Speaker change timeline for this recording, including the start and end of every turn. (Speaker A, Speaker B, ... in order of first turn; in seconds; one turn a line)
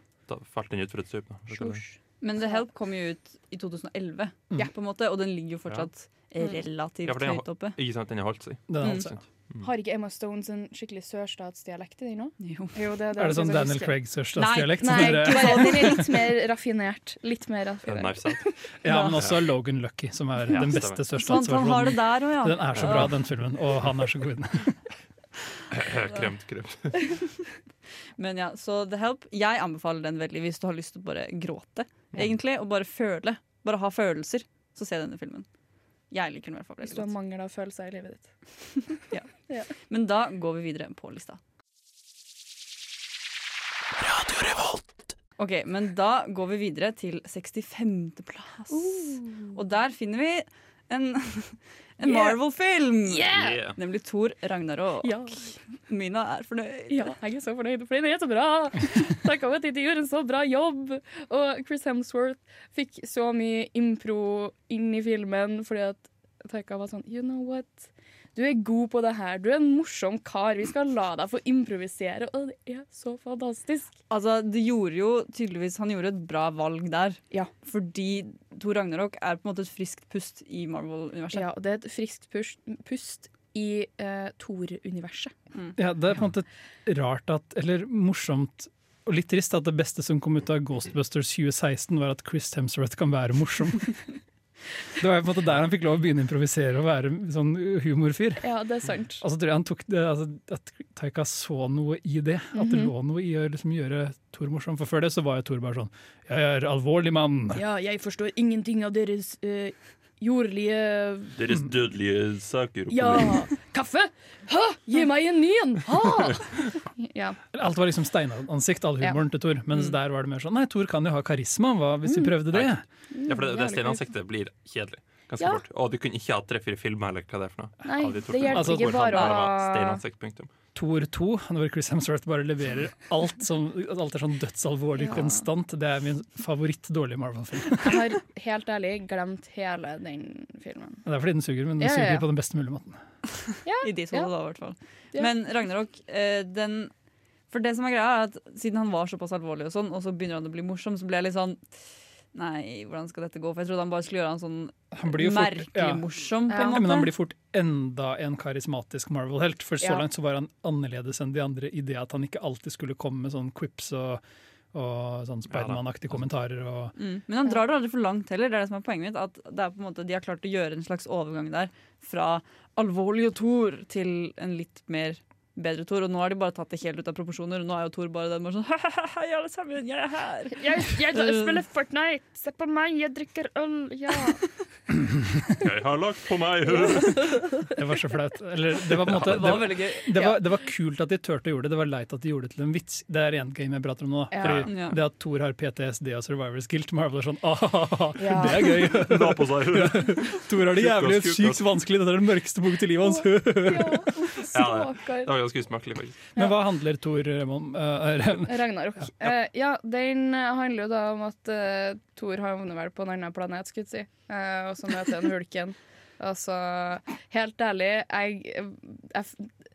Speaker A: 0.3-1.8
Speaker B: 1.5-2.0
Speaker C: 2.2-7.8
Speaker A: 7.0-9.7
Speaker D: 8.7-9.2
Speaker C: 8.8-9.1
Speaker B: 9.6-14.0
Speaker C: 12.4-12.8
Speaker D: 13.1-16.1
Speaker C: 14.3-16.1
Speaker B: 14.8-18.5
Speaker A: 17.8-18.5
Speaker D: 18.8-24.8
Speaker C: 18.9-19.2
Speaker A: 19.2-19.4
Speaker A: 20.5-21.0
Speaker C: 21.1-23.2
Speaker A: 22.7-23.3
Speaker A: 25.7-27.3
Speaker C: 28.2-35.5
Speaker C: 36.1-37.1
Speaker B: 36.8-39.7
Speaker C: 39.1-41.4
Speaker C: 45.4-57.1
Speaker B: 48.7-49.6
Speaker B: 52.0-52.4
Speaker B: 53.0-53.6
Speaker A: 53.3-53.8
Speaker B: 55.0-55.5
Speaker B: 56.9-73.9
Speaker C: 74.1-81.5
Speaker B: 81.3-85.4
Speaker D: 85.8-94.1
Speaker D: 95.0-98.5
Speaker B: 98.4-99.2
Speaker D: 99.2-107.6
Speaker B: 102.5-102.9
Speaker B: 107.5-111.4
Speaker A: 111.3-113.5
Speaker B: 112.9-117.4
Speaker D: 117.5-122.8
Speaker B: 122.0-122.4
Speaker A: 122.5-130.5
Speaker B: 123.1-124.0
Speaker B: 127.8-130.0
Speaker D: 128.5-129.1
Speaker C: 129.1-129.4
Speaker D: 130.7-138.0
Speaker B: 135.0-135.4
Speaker B: 137.8-141.1
Speaker D: 141.1-143.0
Speaker B: 141.8-142.2
Speaker B: 143.6-144.3
Speaker C: 143.8-146.9
Speaker C: 147.5-157.1
Speaker D: 154.9-156.0
Speaker B: 156.5-156.9
Speaker D: 156.7-164.2
Speaker D: 164.7-166.9
Speaker A: 165.5-165.8
Speaker C: 166.9-181.6
Speaker B: 180.6-184.6
Speaker A: 185.6-187.5
Speaker B: 186.7-187.8
Speaker D: 187.7-204.4
Speaker A: 189.0-189.7
Speaker C: 189.2-190.2
Speaker B: 189.9-190.4
Speaker B: 194.3-194.7
Speaker A: 194.4-194.7
Speaker C: 194.6-195.0
Speaker B: 198.2-198.8
Speaker A: 198.6-201.6
Speaker B: 203.1-205.3
Speaker A: 204.3-206.2
Speaker D: 206.3-209.0
Speaker B: 208.4-219.5